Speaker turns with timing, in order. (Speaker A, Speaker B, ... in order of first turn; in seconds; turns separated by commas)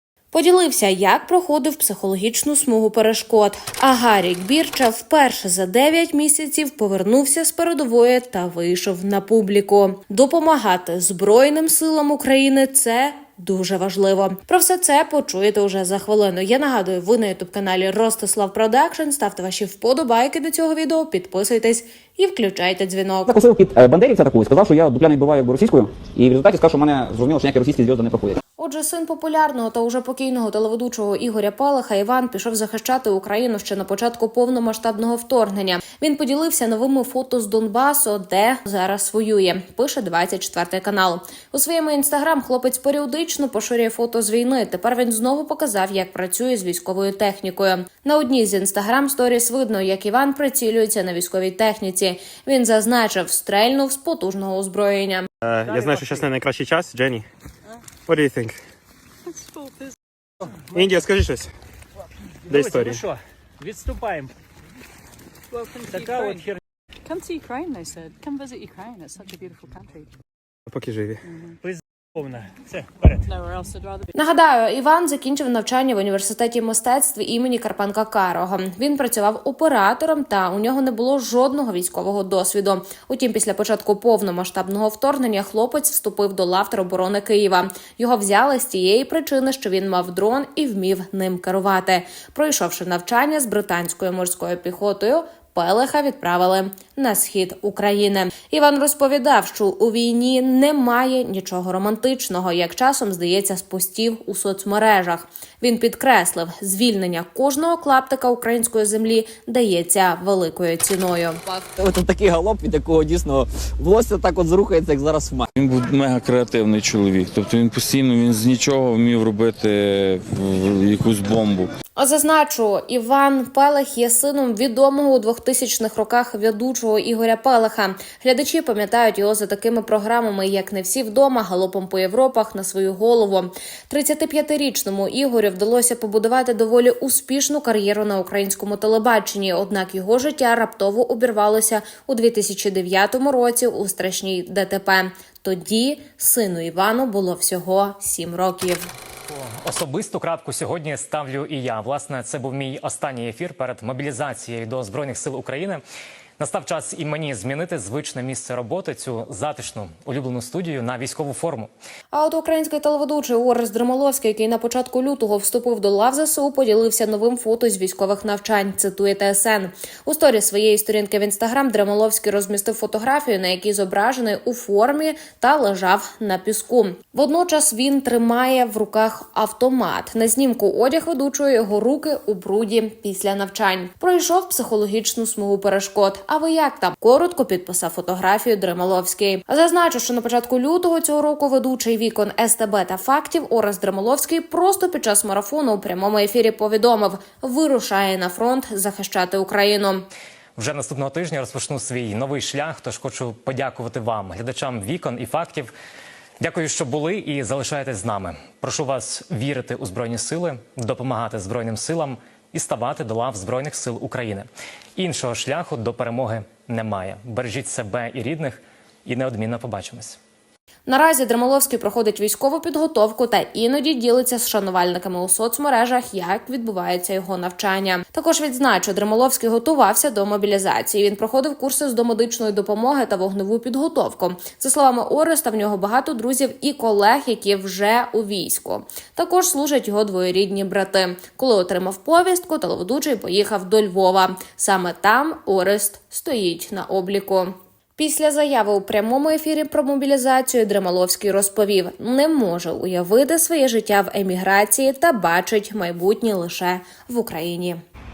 Speaker A: 0.3-23.3, Speaker B: 23.3-28.4, Speaker A: 28.6-55.3, Speaker C: 55.4-57.3, Speaker D: 55.7-56.3, Speaker C: 58.1-58.6, Speaker E: 59.4-60.0, Speaker C: 60.7-61.5, Speaker D: 62.5-64.3, Speaker C: 62.5-63.0, Speaker D: 65.7-66.6, Speaker E: 67.1-70.1, Speaker C: 70.7-71.2, Speaker D: 71.6-73.3, Speaker E: 73.3-74.1, Speaker A: 74.1-111.4, Speaker F: 111.7-115.3, Speaker G: 115.5-121.7, Speaker A: 122.0-148.9, Speaker H: 149.3-155.8, Speaker H: 156.4-161.7, Speaker A: 162.1-200.1, Speaker H: 200.6-205.7, Speaker H: 206.4-220.2, Speaker A: 220.9-257.8